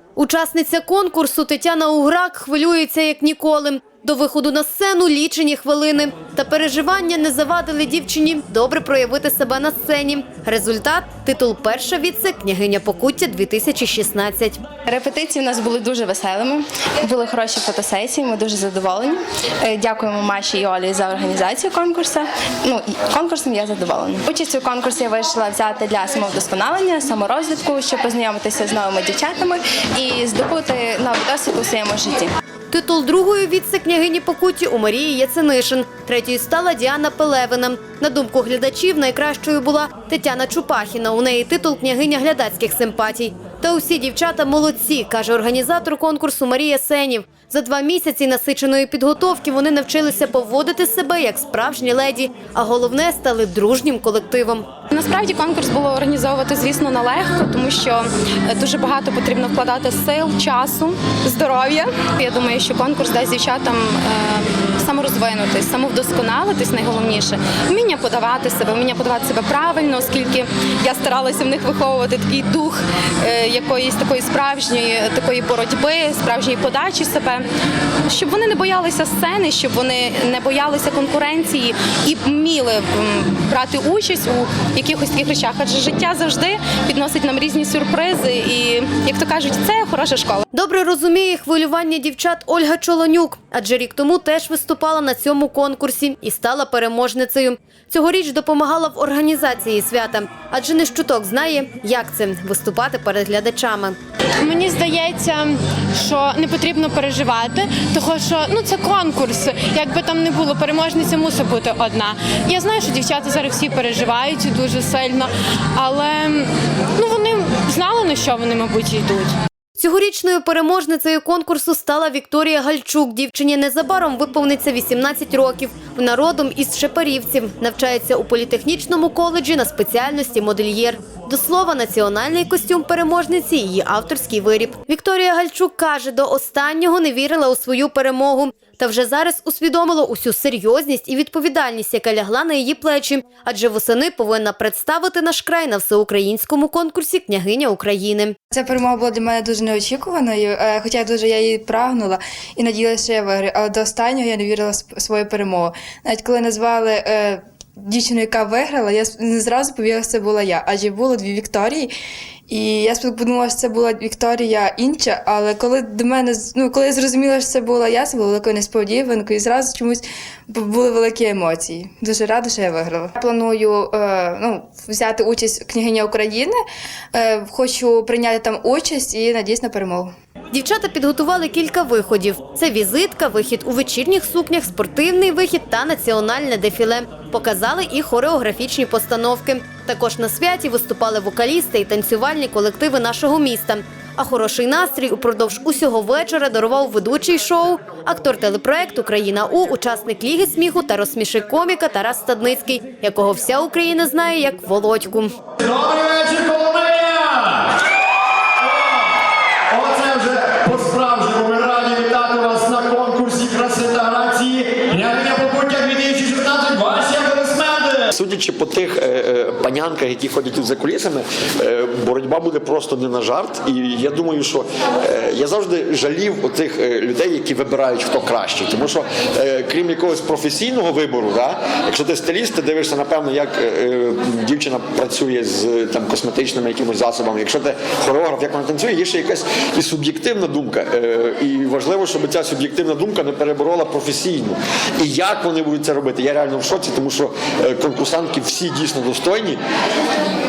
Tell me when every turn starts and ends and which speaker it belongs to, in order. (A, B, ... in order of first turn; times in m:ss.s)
0:00.2-0:14.6 A
0:14.9-0:32.3 B
0:32.7-0:54.7 A
0:54.9-1:17.4 C
1:18.1-1:30.4 C
1:30.5-1:44.0 A
1:44.4-1:59.3 D
1:59.8-2:28.4 A
2:28.5-2:41.9 E
2:42.5-2:56.5 E
2:57.1-3:00.1 E
3:00.5-3:25.4 A
3:25.6-3:27.7 F
3:28.7-3:29.0 F
3:29.7-4:09.6 F